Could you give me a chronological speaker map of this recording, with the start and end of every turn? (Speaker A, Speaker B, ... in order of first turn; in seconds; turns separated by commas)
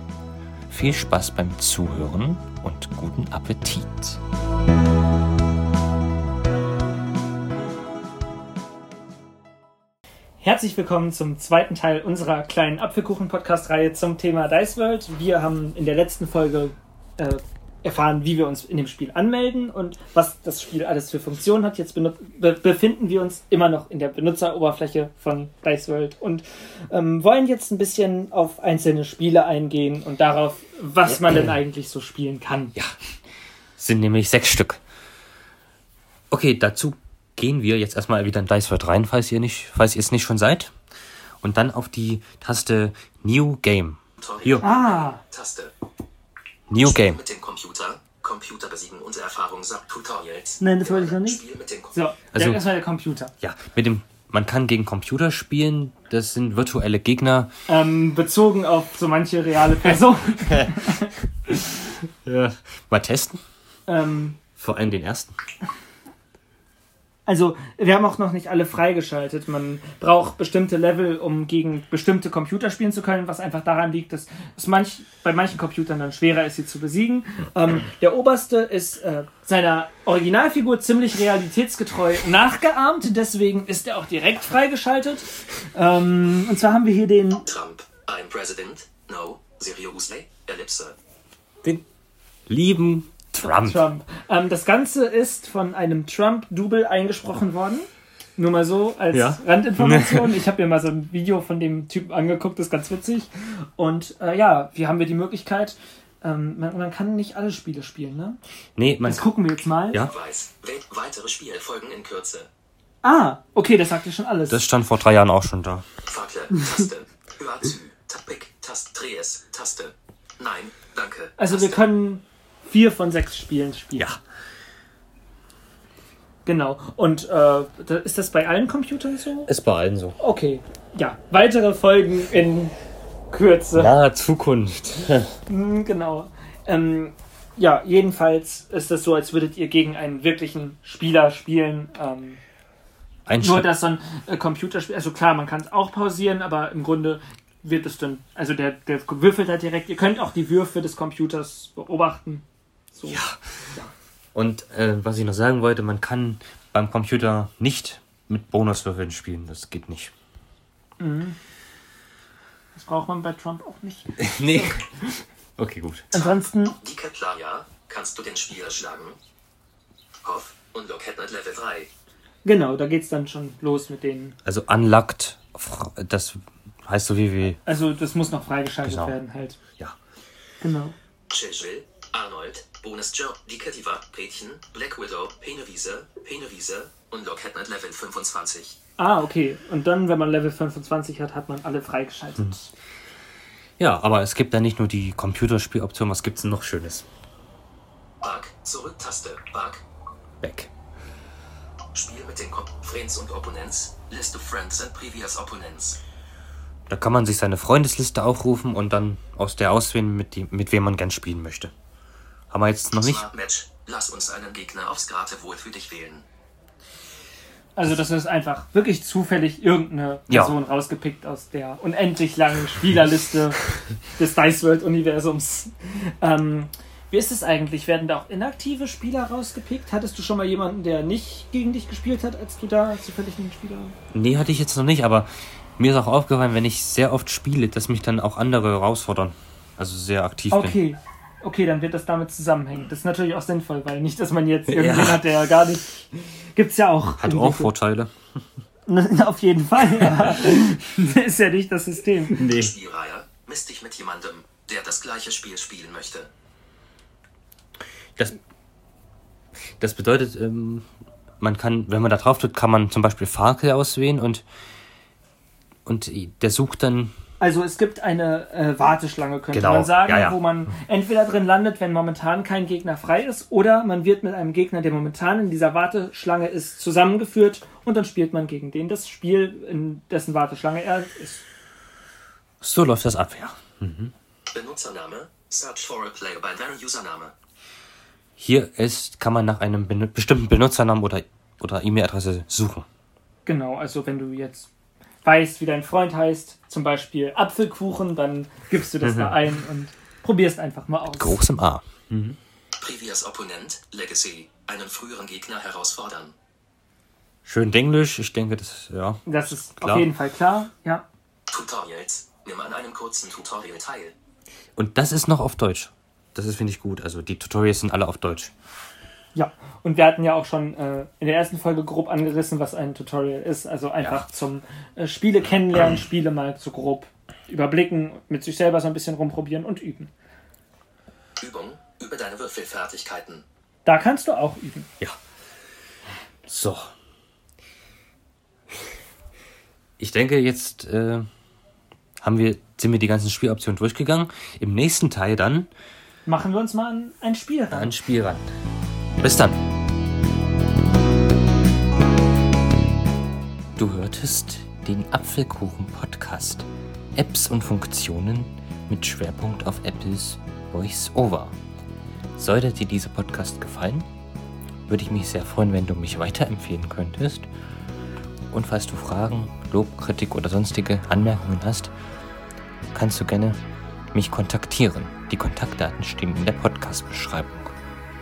Speaker A: 0.7-4.2, Speaker B: 10.4-32.8, Speaker A: 33.8-34.8, Speaker A: 36.3-40.7, Speaker A: 41.4-44.7, Speaker C: 44.2-45.7, Speaker B: 44.6-45.2, Speaker A: 46.7-47.2, Speaker C: 46.8-51.9, Speaker B: 50.6-51.4, Speaker B: 51.9-53.3, Speaker A: 52.3-52.7, Speaker A: 53.4-57.5, Speaker B: 57.7-61.1, Speaker A: 60.4-60.8, Speaker A: 62.2-63.4, Speaker B: 63.9-64.4, Speaker A: 64.5-65.3, Speaker B: 67.3-87.5, Speaker C: 87.5-91.0, Speaker A: 92.5-93.9, Speaker B: 93.4-108.4, Speaker A: 99.1-100.4, Speaker A: 108.8-109.3, Speaker B: 109.0-110.0, Speaker C: 110.0-112.5, Speaker B: 113.0-114.6, Speaker A: 114.5-115.8, Speaker C: 116.1-121.8, Speaker B: 121.4-124.1, Speaker B: 126.5-129.5, Speaker A: 129.5-130.2, Speaker B: 130.2-132.8, Speaker B: 133.3-133.9, Speaker A: 133.8-135.3, Speaker B: 135.5-142.4, Speaker A: 143.3-143.7, Speaker B: 143.4-153.9, Speaker A: 153.1-153.4, Speaker A: 154.3-160.1, Speaker B: 161.0-161.4, Speaker B: 162.7-164.9, Speaker A: 164.2-166.1, Speaker B: 166.1-166.8, Speaker C: 166.2-169.2, Speaker C: 170.2-171.9, Speaker B: 172.4-174.3, Speaker A: 174.4-177.6, Speaker B: 177.7-179.6, Speaker A: 178.8-179.2, Speaker B: 180.6-180.9, Speaker C: 181.3-188.8, Speaker B: 189.0-192.7, Speaker A: 193.8-197.1, Speaker C: 198.2-199.8, Speaker A: 200.4-200.7, Speaker C: 201.9-206.0, Speaker A: 206.9-211.7, Speaker A: 212.5-213.3, Speaker C: 213.0-216.2, Speaker B: 217.8-223.6, Speaker A: 220.3-220.5, Speaker B: 224.1-233.9, Speaker A: 234.1-240.8, Speaker B: 240.5-247.7, Speaker A: 244.7-245.3, Speaker A: 247.2-248.1, Speaker B: 248.9-252.4, Speaker A: 252.3-252.7, Speaker C: 252.4-256.3, Speaker A: 259.8-260.9, Speaker A: 261.4-264.4, Speaker A: 265.9-267.1, Speaker B: 267.4-281.5, Speaker A: 269.5-270.4, Speaker A: 282.6-284.1, Speaker C: 284.5-287.3, Speaker A: 288.4-292.9, Speaker B: 293.5-294.7, Speaker B: 295.2-301.4, Speaker A: 299.0-299.4, Speaker A: 301.2-302.4, Speaker C: 302.8-306.4, Speaker A: 307.5-310.1, Speaker B: 309.3-311.1, Speaker C: 311.5-314.1, Speaker A: 314.8-318.5, Speaker B: 319.4-330.1, Speaker C: 331.4-333.4, Speaker B: 333.9-334.9, Speaker A: 336.5-336.9, Speaker A: 340.0-341.3, Speaker A: 342.2-345.7, Speaker B: 346.3-348.0, Speaker A: 347.7-348.5, Speaker A: 349.2-349.6, Speaker A: 353.8-361.6, Speaker A: 362.4-364.1, Speaker A: 364.9-367.5, Speaker A: 368.5-371.9, Speaker A: 372.9-373.6, Speaker A: 374.1-377.7